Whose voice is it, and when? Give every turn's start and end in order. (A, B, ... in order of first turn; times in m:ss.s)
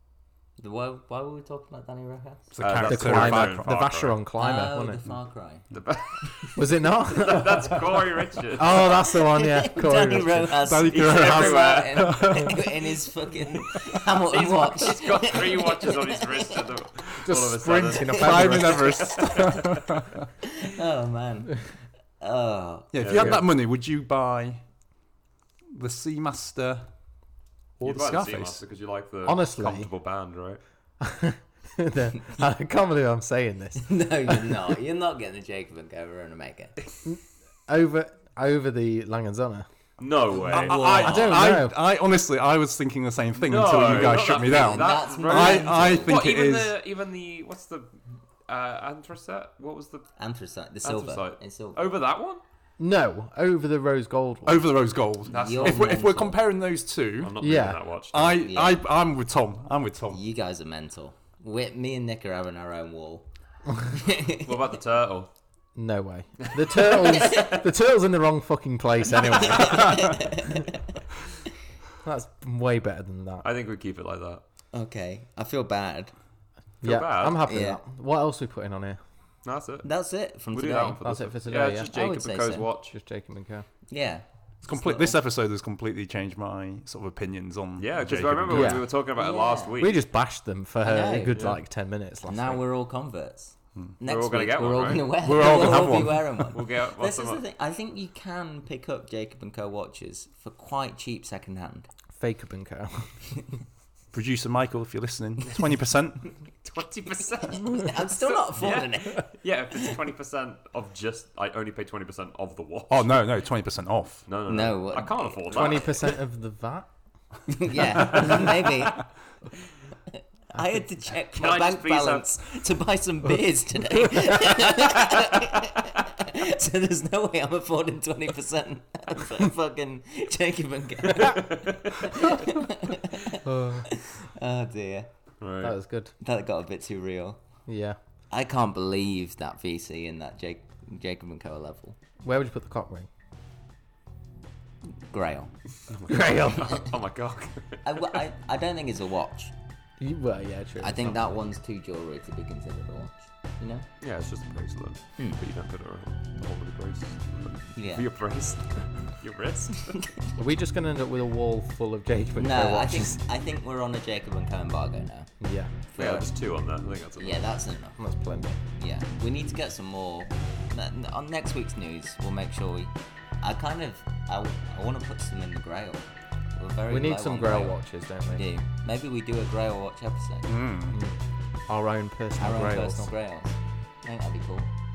0:00.6-0:02.5 A
0:02.5-0:03.7 B
0:02.6-0:04.2 C
0:02.8-0:05.0 D
0:04.4-0:06.5 A
0:05.7-0:08.9 C
0:06.6-0:07.9 D
0:08.6-0:10.7 D
0:08.6-0:16.7 A
0:10.6-0:12.7 B
0:10.9-0:12.5 C
0:14.3-0:19.7 C
0:17.2-0:19.2 D
0:18.0-0:18.7 A
0:18.2-0:20.1 B
0:20.6-0:22.9 A
0:22.9-0:24.6 B
0:23.0-0:23.4 C
0:23.1-0:23.4 D
0:25.7-0:26.9 B
0:27.8-0:28.6 B
0:27.8-0:30.6 C
0:29.2-0:29.9 D
0:31.0-0:34.6 D
0:33.8-0:36.8 A
0:37.0-0:39.7 D
0:40.0-0:41.4 C
0:40.3-0:41.5 A
0:40.5-0:46.7 B
0:41.0-0:41.8 D
0:43.4-0:50.1 C
0:44.4-0:46.2 A
0:50.2-0:51.8 A
0:50.8-0:52.4 C
0:52.8-0:54.6 D
0:54.4-0:57.6 B
0:55.3-0:56.0 C
0:55.3-0:56.4 A
0:57.2-0:58.4 C
0:57.4-0:57.8 D
0:58.1-1:00.2 B
0:58.2-0:58.8 A
1:00.1-1:03.3 A
1:03.8-1:04.5 A
1:04.3-1:05.3 C
1:05.7-1:10.7 D
1:06.5-1:07.4 C
1:07.1-1:07.6 A
1:09.2-1:10.8 A
1:12.0-1:13.5 D
1:13.4-1:14.4 C
1:14.7-1:16.1 A
1:16.8-1:19.0 D
1:16.8-1:17.4 C
1:17.4-1:17.8 A
1:19.4-1:19.9 C
1:19.8-1:21.0 A
1:20.5-1:22.9 C
1:21.0-1:21.9 D
1:21.8-1:22.7 A
1:22.9-1:23.6 D
1:23.9-1:25.2 A
1:24.6-1:28.8 B
1:27.8-1:30.0 C
1:28.5-1:28.9 D
1:29.1-1:29.8 A
1:29.8-1:32.6 D
1:30.8-1:31.5 A
1:31.3-1:31.6 C
1:32.3-1:41.9 A
1:34.0-1:35.7 C
1:35.2-1:36.5 B
1:36.5-1:37.4 C
1:42.1-1:43.1 D
1:44.1-1:46.3 B
1:46.6-1:53.2 C
1:47.5-1:49.3 A
1:52.9-1:54.3 B
1:54.3-1:56.1 C
1:54.4-1:55.9 A
1:55.5-1:56.9 D
1:57.5-1:59.0 A
1:58.1-1:58.4 B
2:00.1-2:15.1 A
2:01.3-2:02.4 C
2:11.3-2:12.1 C
2:13.4-2:13.9 D
2:15.4-2:15.8 C
2:15.6-2:16.1 D
2:16.2-2:17.4 A
2:17.6-2:18.0 D
2:18.3-2:22.0 A
2:22.2-2:23.1 D
2:25.0-2:25.5 A
2:25.9-2:28.2 C
2:26.1-2:26.7 D
2:27.8-2:29.5 A
2:30.0-2:31.2 D
2:30.8-2:33.9 A
2:34.0-2:40.0 C
2:37.7-2:38.1 A
2:40.4-2:43.2 D
2:42.4-2:45.3 A
2:45.4-2:45.7 D
2:45.9-2:46.3 A
2:46.0-2:47.5 C
2:47.2-2:48.0 A
2:48.0-2:48.6 D
2:48.7-2:57.8 A
2:56.9-2:58.4 D
2:58.3-3:00.5 A
3:00.4-3:01.0 B
3:00.9-3:01.1 D
3:01.7-3:03.1 D
3:02.4-3:04.7 A